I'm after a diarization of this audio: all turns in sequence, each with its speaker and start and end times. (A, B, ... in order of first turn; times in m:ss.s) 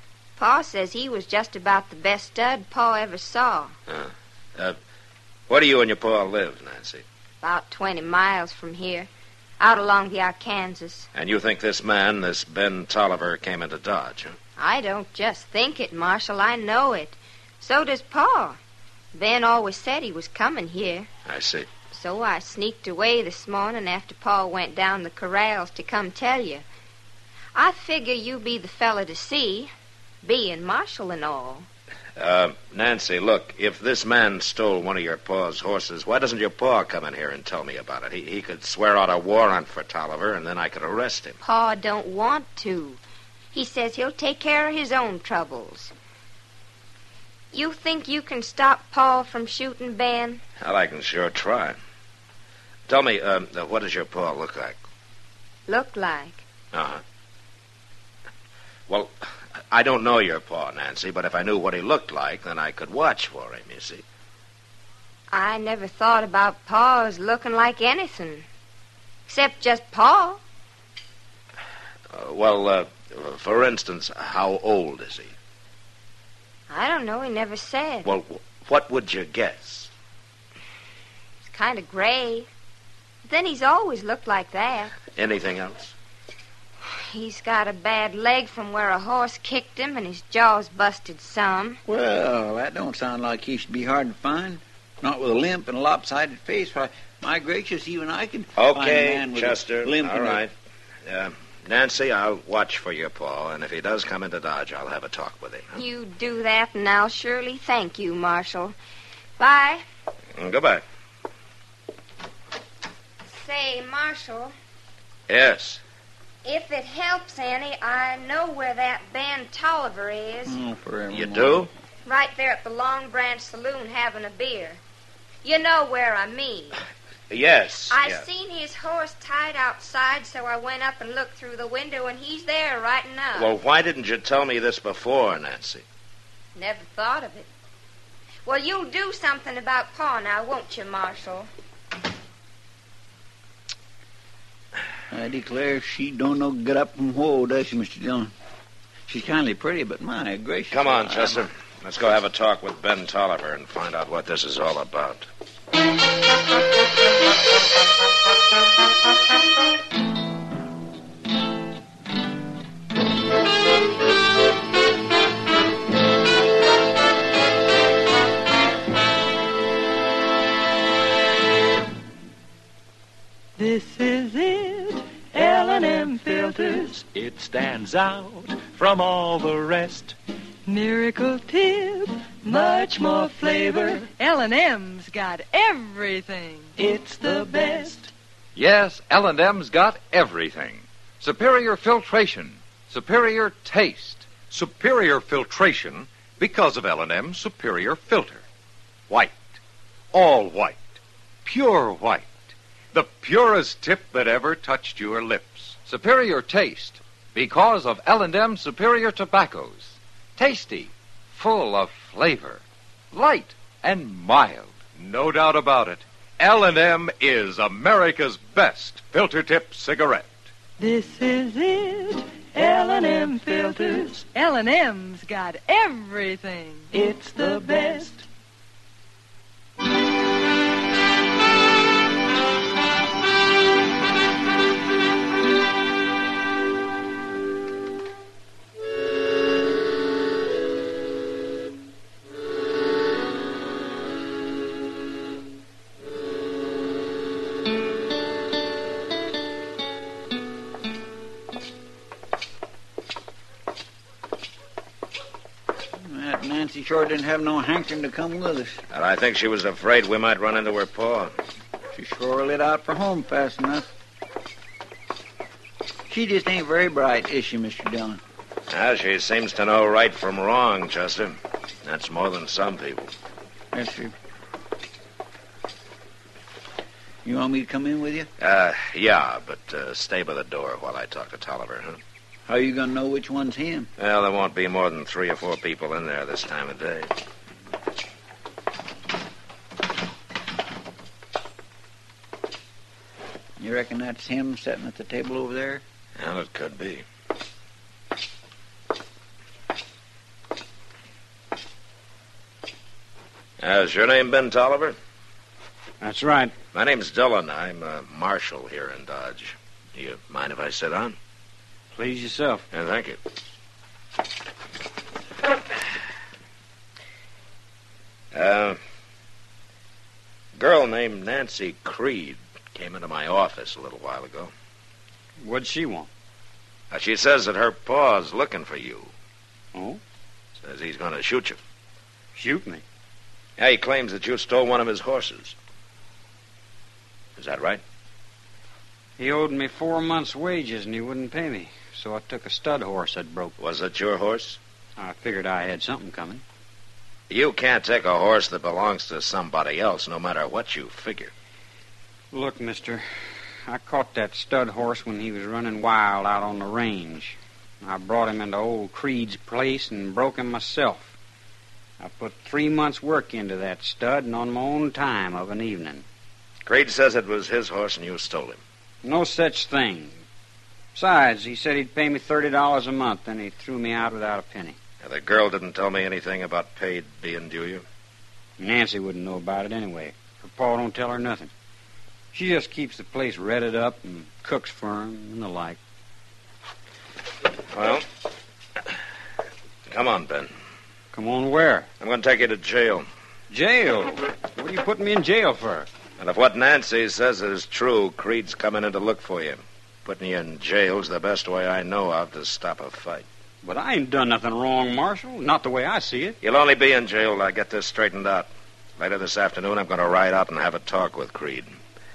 0:00.4-0:03.7 A
0:03.9-0:04.8 B
0:05.5-0:07.0 B
0:07.4-0:09.1 A
0:09.6-0:11.1 A
0:11.1-0:14.4 B
0:14.6-0:18.6 A
0:19.1-0:21.1 A
0:21.2-0:21.7 B
0:21.9-0:26.6 A
0:27.5-0:29.7 A
0:30.2-0:31.6 A
0:32.2-0:41.4 B
0:41.4-0:43.0 A
0:43.5-0:45.9 A
0:47.5-0:50.4 A
0:50.6-0:51.8 B
0:52.9-0:54.8 B
0:55.7-0:56.4 A
0:56.7-0:57.0 B
0:58.9-1:04.0 B
1:05.3-1:08.4 A
1:09.3-1:10.4 A
1:12.1-1:15.3 B
1:16.7-1:18.1 A
1:18.0-1:19.9 B
1:21.4-1:22.5 A
1:23.2-1:25.0 A
1:25.1-1:25.9 B
1:26.9-1:31.8 A
1:31.8-1:40.4 C
1:38.6-1:40.5 B
1:41.0-1:45.8 B
1:45.7-1:48.7 A
1:49.4-1:49.8 A
1:50.4-1:50.8 B
1:53.3-1:54.5 A
1:55.3-1:55.8 B
1:56.4-2:00.5 A
2:00.4-2:01.7 C
2:01.1-2:01.7 B
2:02.0-2:04.8 A
2:05.4-2:06.8 A
2:07.3-2:08.2 B
2:07.9-2:13.5 A
2:13.3-2:15.8 B
2:16.5-2:17.5 A
2:18.4-2:21.5 A
2:25.1-2:28.3 C
2:29.1-2:31.4 C
2:30.7-2:35.2 B
2:53.6-2:57.0 D
2:57.0-3:00.2 E
3:00.6-3:08.0 D
3:06.8-3:08.0 E
3:08.6-3:18.4 F
3:19.1-3:19.6 F
3:20.1-3:40.5 F
3:40.8-3:48.2 D
3:47.0-3:47.4 E
4:16.1-4:18.8 C
4:18.9-4:21.3 B
4:21.9-4:23.9 C
4:26.1-4:28.2 C
4:28.7-4:33.1 B
4:33.7-4:34.1 C
4:37.2-4:38.3 C
4:38.4-4:42.0 B
4:42.5-4:43.9 C
4:44.0-4:47.1 B
4:53.6-4:55.8 C
4:56.2-4:57.0 B
5:03.6-5:05.0 B
5:06.0-5:06.5 G
5:06.7-5:11.2 B
5:11.9-5:12.6 G
5:12.7-5:13.2 B
5:18.3-5:18.8 B
5:20.6-5:24.5 B
5:25.4-5:26.1 G
5:26.9-5:29.1 B
5:29.7-5:30.0 G
5:30.6-5:31.6 B
5:32.3-5:32.8 G
5:33.6-5:35.6 B
5:37.4-5:37.8 B
5:39.2-5:43.5 G
5:43.6-5:44.6 B
5:45.0-5:46.4 G
5:47.3-5:51.3 B
5:52.3-5:53.0 G
5:53.7-6:01.2 G
6:02.0-6:06.0 G
6:06.6-6:08.6 B
6:09.0-6:10.2 G
6:10.9-6:14.8 G
6:15.0-6:17.8 B
6:18.6-6:21.5 G
6:22.3-6:25.8 G
6:27.7-6:28.0 B
6:29.9-6:30.5 B
6:31.1-6:31.9 G
6:32.0-6:33.1 B
6:33.5-6:35.9 G
6:36.2-6:43.2 B
6:43.6-6:46.4 G
6:46.4-6:51.7 B